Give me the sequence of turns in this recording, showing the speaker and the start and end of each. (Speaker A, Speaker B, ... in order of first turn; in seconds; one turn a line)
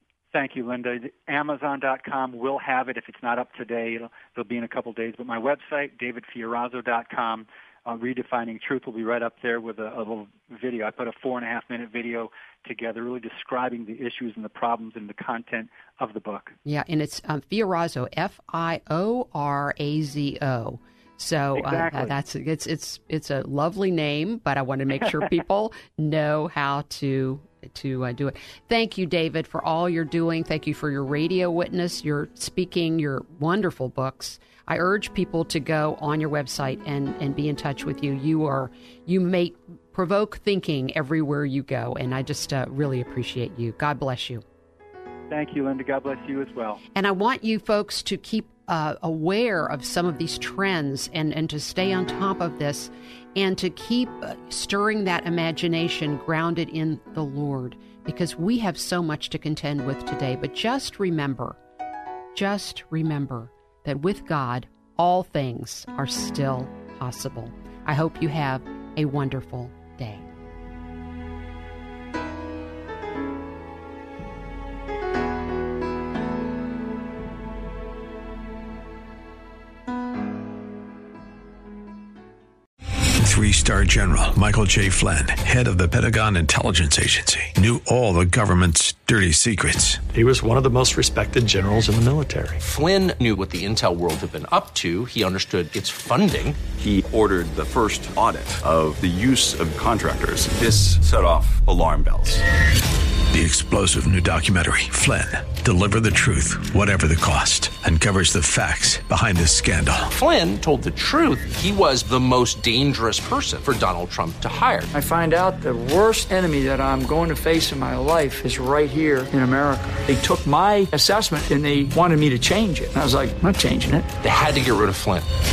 Speaker A: 0.3-16.6
Speaker B: 16.6-44.4
Speaker A: 21.5-22.1
Speaker A: 45.3-46.8
Speaker B: 46.9-61.6
Speaker B: 62.3-70.2
Speaker C: 83.2-90.0
Speaker D: 90.1-92.6
Speaker E: 92.6-96.6
Speaker F: 96.8-102.4
Speaker C: 103.3-110.1
Speaker E: 110.1-114.9
Speaker G: 114.9-124.1
Speaker E: 124.2-125.2